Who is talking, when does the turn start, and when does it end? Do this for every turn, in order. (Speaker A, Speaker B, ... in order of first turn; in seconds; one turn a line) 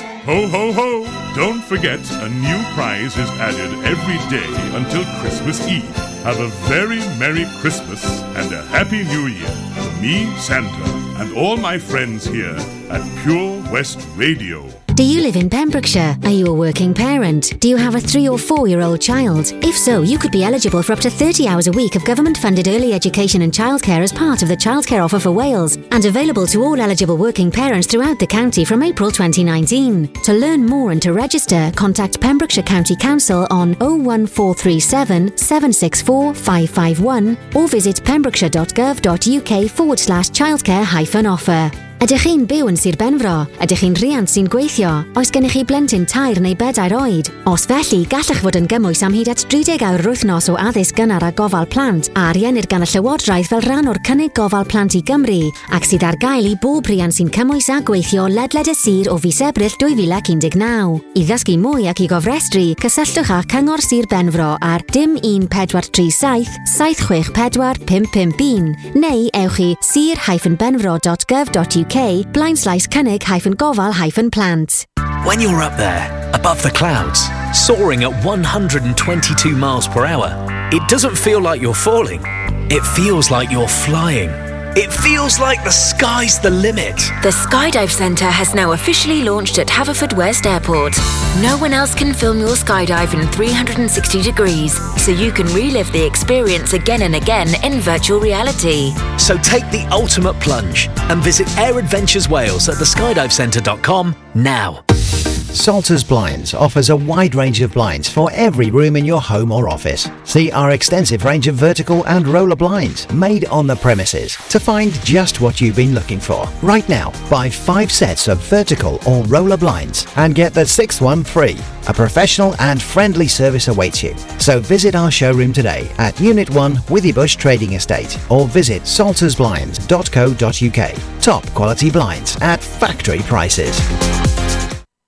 Speaker A: 0.2-14.8
Speaker B: 14.9-74.9
Speaker C: 75.2-87.2
Speaker D: 87.2-99.1
Speaker C: 99.1-104.8
Speaker E: 105.5-133.8